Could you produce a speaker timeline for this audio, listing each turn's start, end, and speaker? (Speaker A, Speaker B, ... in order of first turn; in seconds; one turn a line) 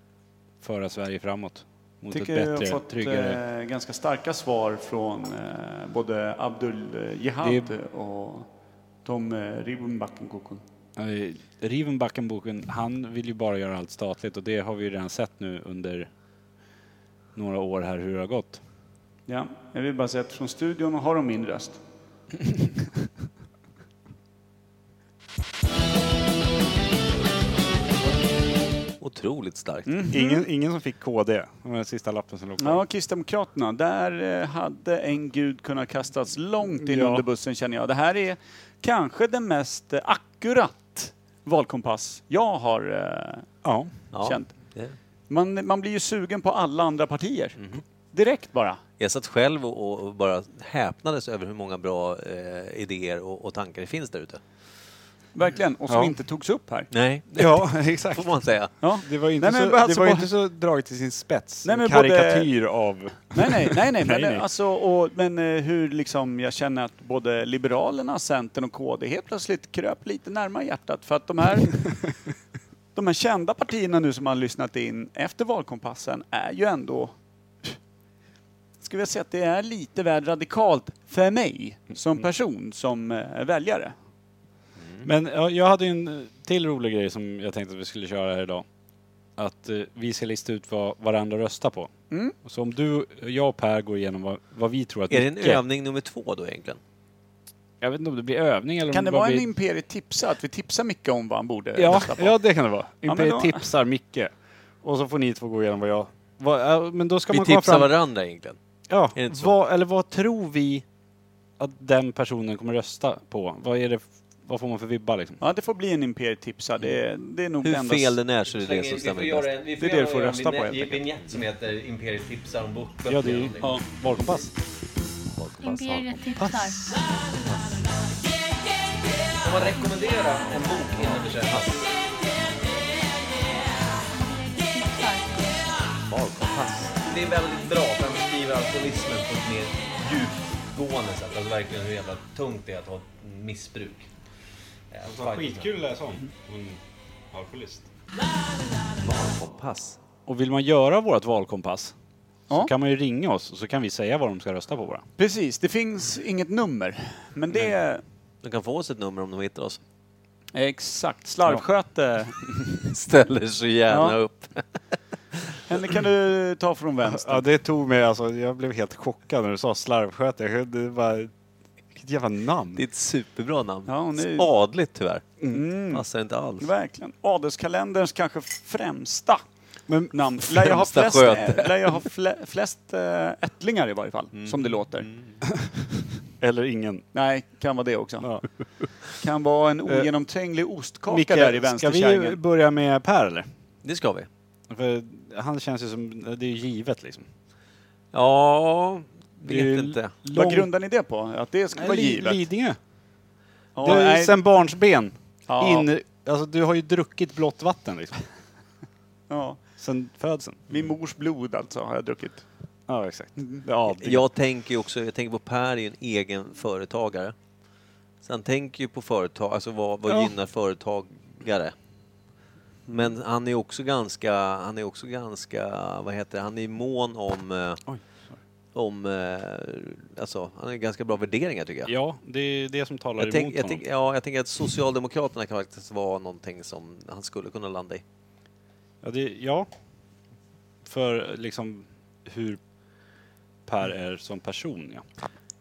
Speaker A: 0.6-3.4
Speaker B: 2.1-8.5
Speaker A: 7.4-7.7
Speaker B: 9.0-10.6
Speaker A: 11.0-16.1
Speaker A: 17.4-18.6
Speaker B: 19.3-21.8
Speaker C: 29.0-30.0
Speaker B: 29.9-30.4
Speaker A: 30.1-32.8
Speaker B: 32.6-43.6
Speaker A: 36.8-37.2
Speaker A: 43.6-44.0
Speaker C: 44.1-45.0
Speaker B: 44.2-44.8
Speaker B: 45.3-48.8
Speaker C: 47.6-47.8
Speaker C: 49.0-54.4
Speaker B: 55.3-56.9
Speaker A: 55.9-56.1
Speaker C: 56.9-58.7
Speaker A: 57.4-64.5
Speaker B: 58.8-60.3
Speaker B: 61.6-62.7
Speaker B: 63.3-72.1
Speaker B: 72.9-77.8
Speaker B: 78.8-84.0
Speaker C: 84.8-85.1
Speaker A: 85.0-88.7
Speaker A: 89.3-95.6
Speaker C: 95.1-96.8
Speaker A: 97.8-99.5
Speaker B: 98.9-102.4
Speaker A: 101.8-107.9
Speaker B: 103.0-103.7
Speaker C: 107.3-108.6
Speaker A: 108.9-110.8
Speaker C: 109.1-109.5
Speaker A: 111.6-115.4
Speaker B: 115.4-118.3
Speaker C: 117.6-119.5
Speaker D: 118.5-124.4
Speaker B: 119.8-121.0
Speaker A: 123.1-124.5
Speaker C: 125.1-126.3
Speaker E: 125.6-127.0
Speaker A: 126.4-127.0
Speaker C: 127.2-127.9
Speaker D: 129.4-131.9
Speaker E: 134.3-135.7
Speaker C: 136.1-137.0
Speaker D: 137.0-144.1
Speaker D: 144.9-145.9
Speaker A: 145.1-146.8
Speaker A: 147.3-147.9
Speaker C: 149.0-150.0
Speaker A: 150.3-151.9
Speaker A: 152.5-155.1
Speaker B: 155.2-158.0
Speaker C: 158.4-159.8
Speaker B: 160.5-162.4
Speaker C: 162.8-165.0
Speaker B: 163.9-164.2
Speaker B: 165.7-167.4
Speaker A: 167.0-171.3
Speaker A: 171.9-172.8
Speaker C: 172.7-176.7
Speaker B: 173.9-174.5
Speaker B: 175.5-176.0
Speaker B: 176.6-179.4
Speaker A: 179.9-180.8
Speaker B: 180.1-185.1
Speaker C: 180.7-181.7
Speaker C: 184.3-185.3
Speaker A: 186.2-187.1
Speaker B: 187.1-188.5
Speaker A: 188.2-189.1
Speaker B: 189.2-192.4
Speaker A: 191.1-193.5
Speaker C: 193.8-194.3
Speaker A: 194.7-197.3
Speaker C: 198.1-200.1
Speaker A: 199.4-200.7
Speaker B: 200.3-202.4
Speaker A: 201.8-202.8
Speaker B: 203.8-204.4
Speaker A: 203.8-208.3
Speaker B: 205.5-205.9
Speaker B: 209.3-209.6
Speaker A: 209.8-210.7
Speaker B: 210.7-212.5
Speaker A: 212.9-214.2
Speaker B: 213.4-213.6
Speaker C: 214.0-217.4
Speaker C: 218.2-221.8
Speaker A: 220.1-220.3
Speaker C: 222.9-227.9
Speaker A: 227.9-228.4
Speaker C: 228.7-231.9
Speaker A: 231.9-233.8
Speaker C: 233.2-238.0
Speaker A: 239.0-239.7
Speaker A: 240.8-242.6
Speaker A: 243.7-245.0